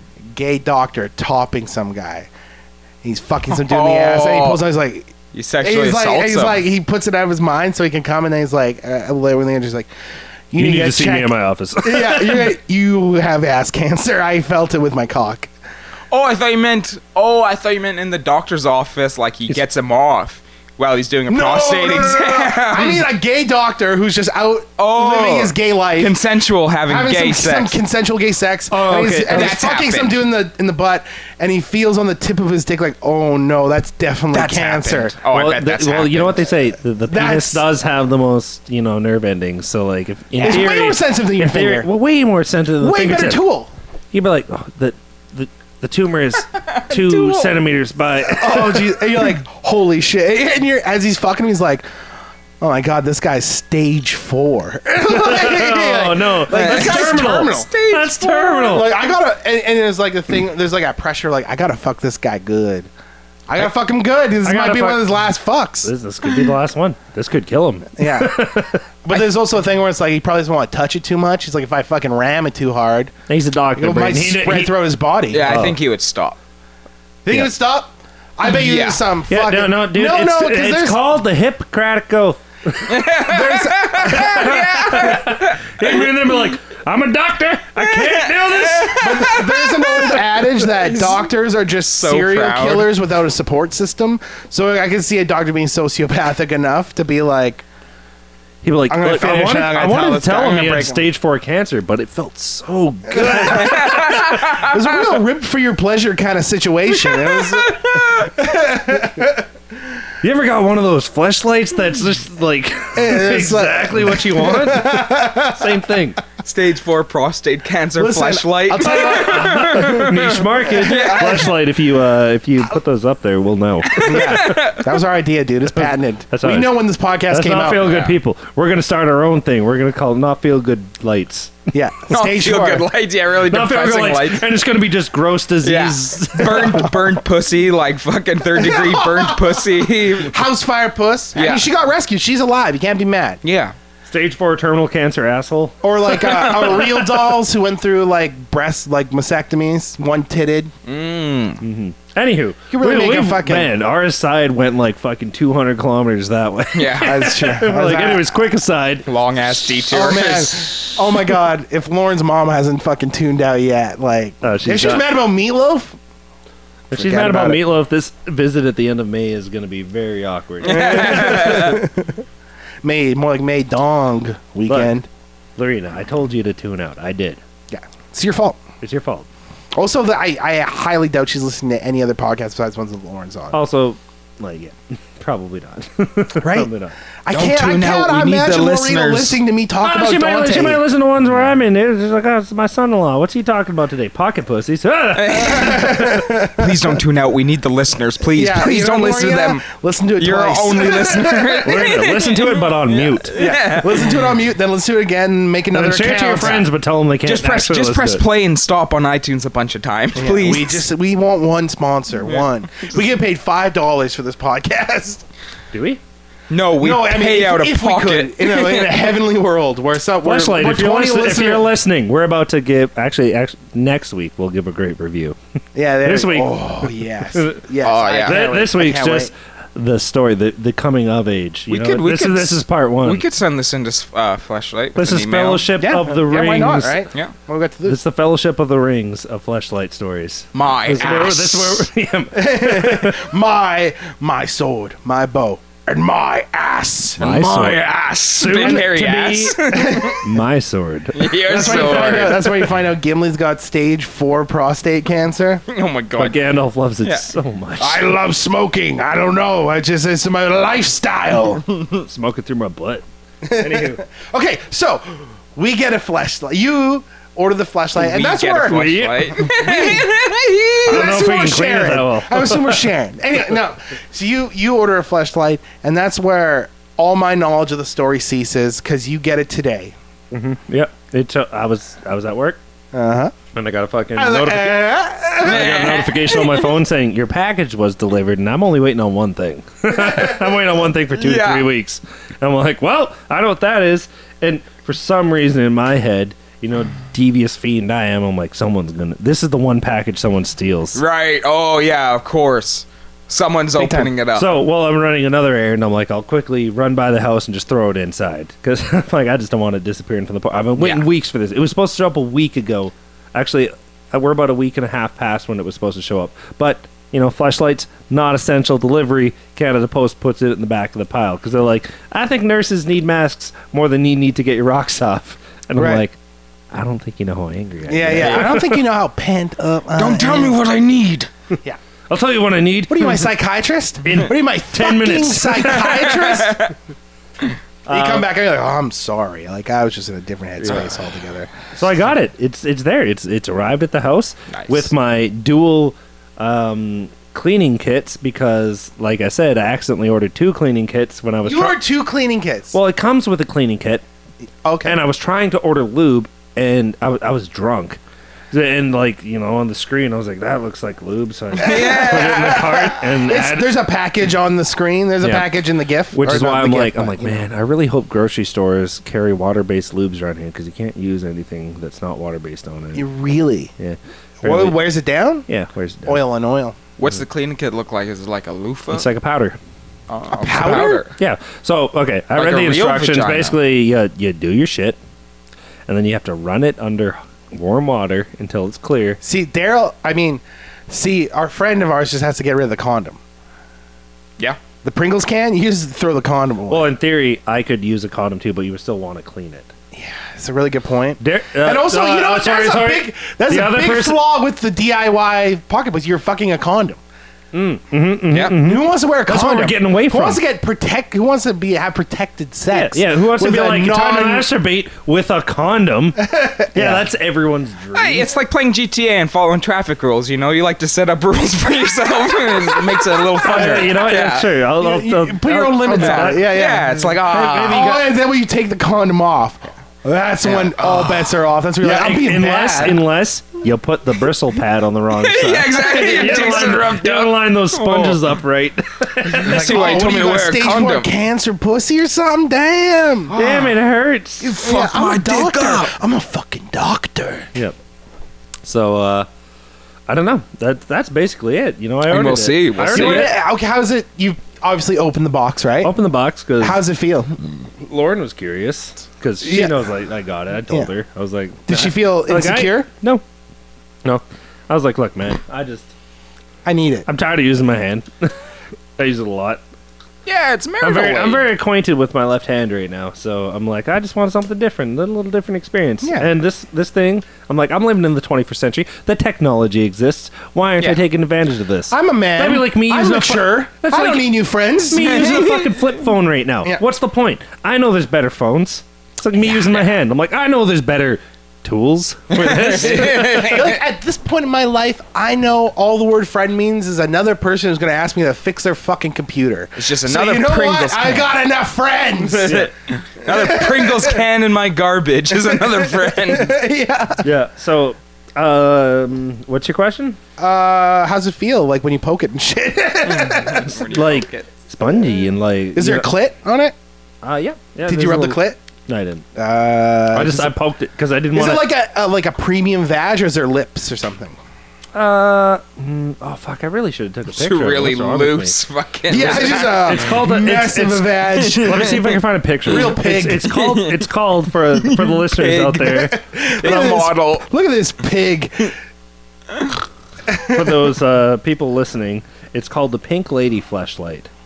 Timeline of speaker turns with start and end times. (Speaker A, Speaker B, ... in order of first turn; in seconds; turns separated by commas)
Speaker A: 0.3-2.3, Speaker A: 3.0-9.9, Speaker B: 3.5-4.6, Speaker B: 5.3-6.6, Speaker A: 10.5-15.5, Speaker C: 10.6-12.5, Speaker B: 16.1-23.0, Speaker A: 21.3-26.2, Speaker B: 24.8-27.8, Speaker A: 26.9-35.1, Speaker C: 28.7-29.6, Speaker B: 29.3-30.2, Speaker B: 34.3-36.5, Speaker C: 35.2-43.4, Speaker A: 37.1-37.6, Speaker A: 40.4-41.9, Speaker A: 42.8-43.7, Speaker C: 44.1-49.1, Speaker B: 46.8-47.6, Speaker A: 48.3-51.8, Speaker A: 52.6-57.7, Speaker C: 55.0-58.9, Speaker B: 56.5-58.9, Speaker A: 58.6-62.9, Speaker A: 63.5-65.9, Speaker C: 64.4-65.1, Speaker C: 65.8-68.8, Speaker A: 68.0-68.4, Speaker A: 69.0-73.1, Speaker C: 73.3-74.8, Speaker A: 73.8-75.7, Speaker B: 75.3-76.4, Speaker C: 75.4-75.8, Speaker A: 77.2-81.0, Speaker B: 78.4-79.0, Speaker C: 79.3-83.0, Speaker B: 82.8-86.0, Speaker A: 83.2-84.4, Speaker C: 84.0-89.5, Speaker B: 87.9-91.3, Speaker A: 89.0-97.7, Speaker B: 91.8-92.9, Speaker C: 98.6-104.4, Speaker A: 98.9-101.1, Speaker A: 103.2-109.5, Speaker B: 103.4-104.8, Speaker B: 107.1-108.4, Speaker C: 110.2-116.2, Speaker A: 112.9-115.8, Speaker B: 116.4-121.5, Speaker A: 118.0-121.5, Speaker C: 119.5-124.6, Speaker B: 123.9-124.9, Speaker A: 124.0-127.9, Speaker C: 125.7-126.8, Speaker C: 127.3-131.6, Speaker B: 127.8-128.1, Speaker A: 131.7-132.9, Speaker B: 132.1-134.4, Speaker C: 133.5-136.9, Speaker B: 135.6-140.3, Speaker A: 138.5-139.6, Speaker A: 140.2-143.4, Speaker B: 141.3-141.7, Speaker B: 143.4-143.7, Speaker C: 144.1-146.5, Speaker A: 145.8-150.7, Speaker B: 146.3-146.8, Speaker B: 150.8-151.6, Speaker C: 151.6-159.1, Speaker A: 152.7-153.7, Speaker B: 156.7-157.2, Speaker A: 157.0-158.3, Speaker B: 159.1-160.8, Speaker A: 159.9-166.0, Speaker C: 164.4-165.1, Speaker A: 166.9-167.7, Speaker C: 166.9-171.8, Speaker B: 170.6-171.8, Speaker A: 170.7-172.2, Speaker A: 172.8-175.1, Speaker C: 174.7-175.0, Speaker C: 175.6-177.4, Speaker A: 177.7-178.6, Speaker C: 178.8-179.3, Speaker A: 179.7-183.6, Speaker C: 183.5-186.9, Speaker A: 186.4-186.7, Speaker A: 187.2-190.8, Speaker B: 187.3-189.4, Speaker C: 189.8-196.1, Speaker B: 195.1-199.6, Speaker A: 195.6-197.0, Speaker A: 198.3-202.0, Speaker B: 200.2-204.2, Speaker C: 201.6-203.5, Speaker A: 203.3-206.7, Speaker C: 205.7-208.2, Speaker B: 207.2-210.8, Speaker A: 210.1-215.2, Speaker B: 212.2-212.9, Speaker C: 215.7-216.0, Speaker B: 216.5-219.2, Speaker A: 216.8-221.7, Speaker C: 220.2-225.3, Speaker A: 225.7-229.3, Speaker C: 226.0-227.6, Speaker B: 227.8-228.4, Speaker C: 228.2-233.2, Speaker B: 231.7-235.7, Speaker C: 234.9-237.0, Speaker A: 235.8-238.0, Speaker C: 237.8-243.2, Speaker B: 240.5-241.9, Speaker A: 241.0-241.3, Speaker A: 242.3-247.2, Speaker B: 247.2-250.2, Speaker C: 247.2-252.4, Speaker A: 248.5-248.8, Speaker A: 249.7-250.2, Speaker B: 251.1-252.5, Speaker A: 251.5-255.6, Speaker B: 255.7-256.4, Speaker C: 256.2-258.0, Speaker A: 257.8-261.6, Speaker C: 262.0-264.0, Speaker A: 263.4-270.1, Speaker B: 268.0-271.0, Speaker C: 268.7-269.5, Speaker A: 270.8-279.9, Speaker C: 270.9-272.8, Speaker C: 280.3-282.6, Speaker A: 282.9-283.3, Speaker C: 283.5-301.0, Speaker A: 284.1-285.7, Speaker B: 285.4-286.7, Speaker B: 291.2-291.7, Speaker B: 300.9-304.5, Speaker A: 303.7-304.1, Speaker C: 304.3-326.2, Speaker B: 310.8-311.0, Speaker A: 325.8-326.0, Speaker C: 326.7-328.8, Speaker A: 327.9-330.6, Speaker B: 328.2-328.5, Speaker B: 329.9-331.3, Speaker C: 332.1-333.3, Speaker A: 332.9-336.7, Speaker C: 334.0-336.0, Speaker B: 335.8-336.7, Speaker C: 337.9-338.2, Speaker A: 337.9-341.5, Speaker C: 341.7-351.8, Speaker B: 344.5-344.9, Speaker A: 351.4-352.8, Speaker C: 352.7-354.0, Speaker A: 354.6-355.0, Speaker C: 354.8-358.0, Speaker C: 358.5-363.7, Speaker B: 361.6-362.6, Speaker A: 361.6-367.4, Speaker C: 365.2-365.6, Speaker C: 366.1-373.1, Speaker A: 372.9-373.7, Speaker C: 373.8-374.9, Speaker A: 374.4-375.5, Speaker C: 375.5-376.2, Speaker A: 376.0-376.8, Speaker B: 377.0-379.1, Speaker C: 378.9-379.6, Speaker B: 380.1-381.1, Speaker A: 380.3-381.0, Speaker C: 380.6-385.0, Speaker B: 382.3-383.6, Speaker C: 385.9-389.2, Speaker A: 389.2-393.2, Speaker A: 394.8-396.9, Speaker C: 396.7-399.7, Speaker A: 399.9-407.0, Speaker C: 401.2-404.2, Speaker C: 407.5-410.4, Speaker A: 408.6-414.5, Speaker C: 412.7-418.3, Speaker A: 416.2-417.0, Speaker B: 417.9-424.5, Speaker C: 423.4-426.6, Speaker A: 423.4-423.9, Speaker A: 424.8-433.0, Speaker B: 425.9-427.9, Speaker C: 427.2-428.1, Speaker B: 430.4-431.4, Speaker C: 431.8-440.0, Speaker B: 435.2-438.4, Speaker A: 436.0-436.7, Speaker B: 439.3-441.1, Speaker A: 439.4-443.3, Speaker B: 443.3-443.8, Speaker C: 443.3-444.6, Speaker B: 444.4-445.9, Speaker A: 444.5-447.5, Speaker C: 448.6-449.3, Speaker C: 450.1-453.3, Speaker B: 452.1-453.3, Speaker A: 452.9-455.9, Speaker C: 455.8-456.8, Speaker A: 456.6-457.4, Speaker C: 457.8-463.2, Speaker A: 459.4-459.8, Speaker A: 461.7-462.9, Speaker C: 464.0-465.9, Speaker A: 466.6-467.1, Speaker C: 467.1-468.3, Speaker C: 469.0-469.6, Speaker B: 470.2-471.5, Speaker C: 470.8-484.3, Speaker A: 476.0-476.3, Speaker A: 481.9-485.3, Speaker C: 484.9-493.6, Speaker B: 485.1-485.6, Speaker B: 489.5-489.9, Speaker B: 492.4-493.8, Speaker A: 492.8-502.7, Speaker B: 499.8-501.3, Speaker B: 502.2-506.6, Speaker A: 503.2-504.2, Speaker A: 505.3-507.2, Speaker C: 507.2-510.2, Speaker A: 510.4-513.8, Speaker B: 513.1-514.5, Speaker C: 513.8-516.1, Speaker A: 515.7-516.7, Speaker C: 517.2-519.2, Speaker A: 517.9-518.6, Speaker A: 519.3-520.5, Speaker C: 520.1-521.7, Speaker A: 521.3-524.4, Speaker C: 524.9-528.6, Speaker B: 527.3-530.0, Speaker A: 529.1-532.0, Speaker C: 529.2-536.1, Speaker B: 531.4-532.1, Speaker A: 532.6-533.5, Speaker B: 533.5-534.0, Speaker B: 534.7-537.5, Speaker A: 535.9-538.7, Speaker A: 540.3-540.8, Speaker C: 540.5-544.3